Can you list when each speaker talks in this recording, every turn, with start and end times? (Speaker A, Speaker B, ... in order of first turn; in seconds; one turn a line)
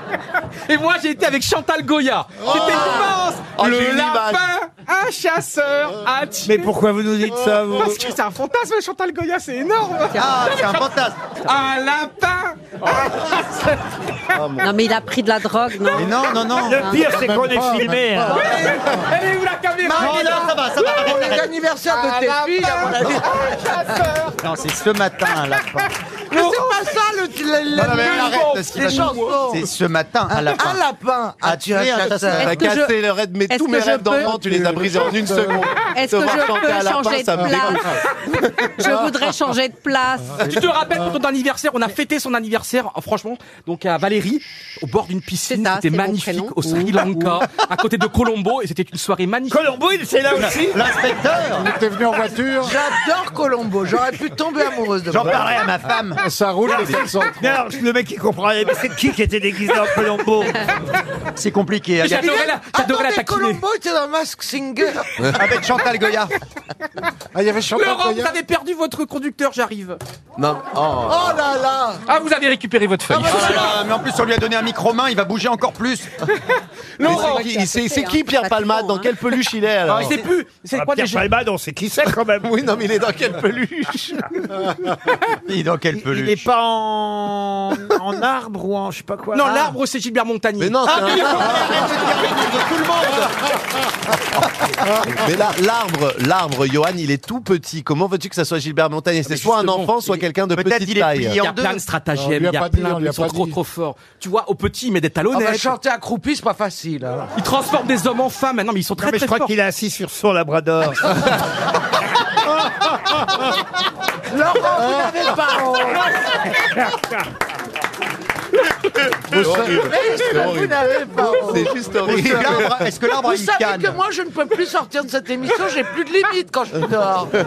Speaker A: 0.7-6.7
Speaker B: 2.4-2.8
Speaker C: 2.5-4.4
Speaker D: 6.5-8.1
Speaker A: 7.8-10.8
Speaker E: 10.2-11.2
Speaker A: 11.4-13.8
Speaker C: 14.3-14.7
Speaker F: 14.6-17.2
Speaker E: 15.9-16.8
Speaker D: 16.6-18.5
Speaker B: 16.9-19.1
Speaker A: 18.3-20.4
Speaker E: 19.8-21.5
Speaker G: 20.0-23.6
Speaker A: 21.9-24.4
Speaker E: 24.4-25.9
Speaker G: 26.3-29.6
Speaker A: 26.4-26.7
Speaker E: 27.7-30.8
Speaker A: 27.9-29.4
Speaker G: 30.3-32.4
Speaker E: 31.4-32.6
Speaker F: 32.4-34.4
Speaker C: 32.4-37.9
Speaker B: 34.2-35.7
Speaker F: 35.9-40.5
Speaker B: 37.4-37.7
Speaker A: 40.4-49.7
Speaker F: 45.5-47.4
Speaker D: 49.5-50.8
Speaker E: 50.3-51.7
Speaker B: 51.5-52.8
Speaker G: 52.6-55.5
Speaker E: 55.1-56.2
Speaker B: 56.1-57.6
Speaker D: 56.7-60.6
Speaker E: 61.4-62.4
Speaker A: 62.0-63.6
Speaker G: 62.2-65.1
Speaker E: 65.3-66.3
Speaker B: 67.3-68.4
Speaker A: 67.7-70.0
Speaker C: 70.4-71.4
Speaker G: 71.1-72.0
Speaker A: 72.1-73.8
Speaker G: 73.1-73.4
Speaker E: 73.2-76.1
Speaker A: 77.0-77.6
Speaker C: 77.0-80.2
Speaker F: 77.1-79.3
Speaker A: 79.9-81.2
Speaker D: 80.7-82.5
Speaker C: 82.4-84.7
Speaker E: 85.5-86.4
Speaker D: 86.0-89.7
Speaker A: 89.3-91.9
Speaker C: 90.6-91.8
Speaker E: 90.9-95.2
Speaker C: 95.1-101.4
Speaker A: 99.3-100.2
Speaker E: 100.5-101.8
Speaker A: 101.3-105.8
Speaker B: 102.1-103.6
Speaker G: 105.3-107.3
Speaker A: 107.4-109.5
Speaker D: 109.0-111.3
Speaker G: 114.3-116.4
Speaker B: 119.3-119.9
Speaker C: 119.3-122.9
Speaker G: 119.7-122.0
Speaker E: 122.0-124.0
Speaker G: 123.1-127.3